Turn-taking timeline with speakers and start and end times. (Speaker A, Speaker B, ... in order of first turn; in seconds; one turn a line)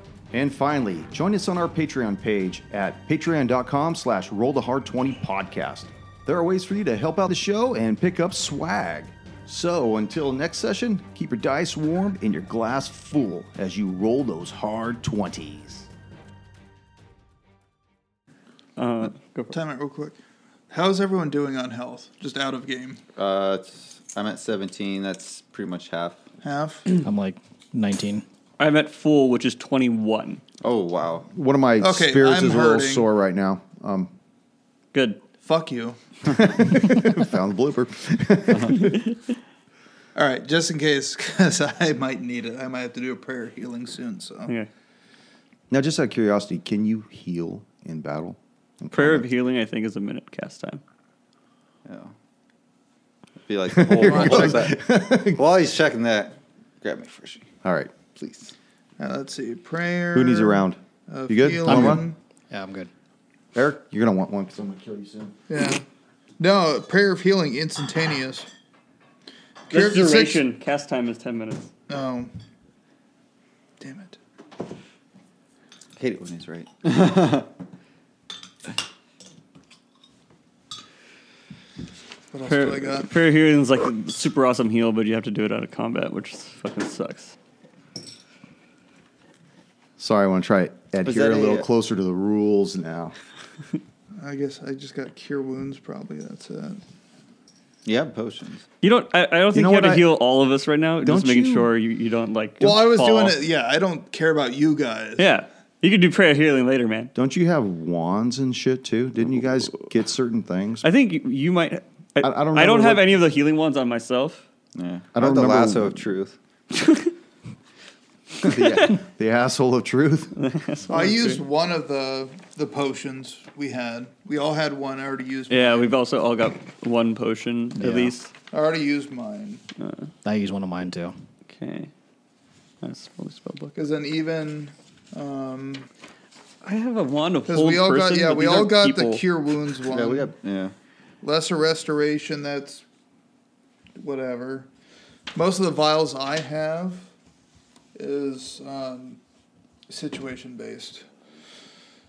Speaker A: 0.3-15.9
Speaker B: 18.8-19.6
Speaker C: 19.5-20.2
Speaker C: 20.7-23.0
Speaker D: 23.1-26.2
Speaker C: 26.4-26.8
Speaker E: 27.0-28.2
Speaker B: 28.6-30.4
Speaker D: 30.6-31.3
Speaker A: 31.3-34.1
Speaker C: 31.8-33.1
Speaker B: 34.9-35.2
Speaker C: 35.4-36.8
Speaker A: 36.3-39.0
Speaker D: 38.5-38.9
Speaker B: 38.9-39.1
Speaker C: 40.1-44.5
Speaker A: 45.7-49.3
Speaker B: 48.9-50.8
Speaker D: 51.8-52.1
Speaker D: 53.4-58.5
Speaker A: 53.7-55.4
Speaker C: 54.0-54.7
Speaker A: 57.6-57.9
Speaker C: 59.0-62.1
Speaker A: 60.1-62.1
Speaker E: 61.6-62.9
Speaker A: 63.5-65.3
Speaker C: 65.5-65.8
Speaker C: 66.4-68.5
Speaker C: 69.7-70.5
Speaker B: 69.7-71.7
Speaker C: 71.9-72.3
Speaker C: 73.8-74.2
Speaker D: 76.0-77.5
Speaker C: 82.3-83.1
Speaker B: 82.5-87.3
Speaker A: 90.0-93.2
Speaker D: 91.0-91.7
Speaker C: 94.2-96.8
Speaker D: 97.8-98.7
Speaker B: 98.8-103.4
Speaker A: 99.5-100.1
Speaker A: 101.0-101.7
Speaker C: 102.6-105.3
Speaker B: 105.2-107.1
Speaker A: 107.1-110.9
Speaker B: 110.8-114.4
Speaker A: 112.2-113.1
Speaker D: 114.7-116.3
Speaker A: 115.1-116.1
Speaker B: 116.7-117.1
Speaker A: 118.4-120.4
Speaker B: 120.3-121.4
Speaker C: 120.9-125.9
Speaker B: 125.5-128.3
Speaker E: 127.8-128.1
Speaker C: 128.5-129.6
Speaker B: 129.8-130.1
Speaker E: 130.2-131.2
Speaker B: 131.5-131.9
Speaker B: 132.8-133.8
Speaker C: 133.8-135.9
Speaker B: 136.6-139.2
Speaker C: 137.5-140.3
Speaker D: 139.9-140.7
Speaker C: 141.2-142.8
Speaker C: 144.0-144.7
Speaker C: 145.3-147.1
Speaker C: 147.9-149.2
Speaker C: 149.9-151.1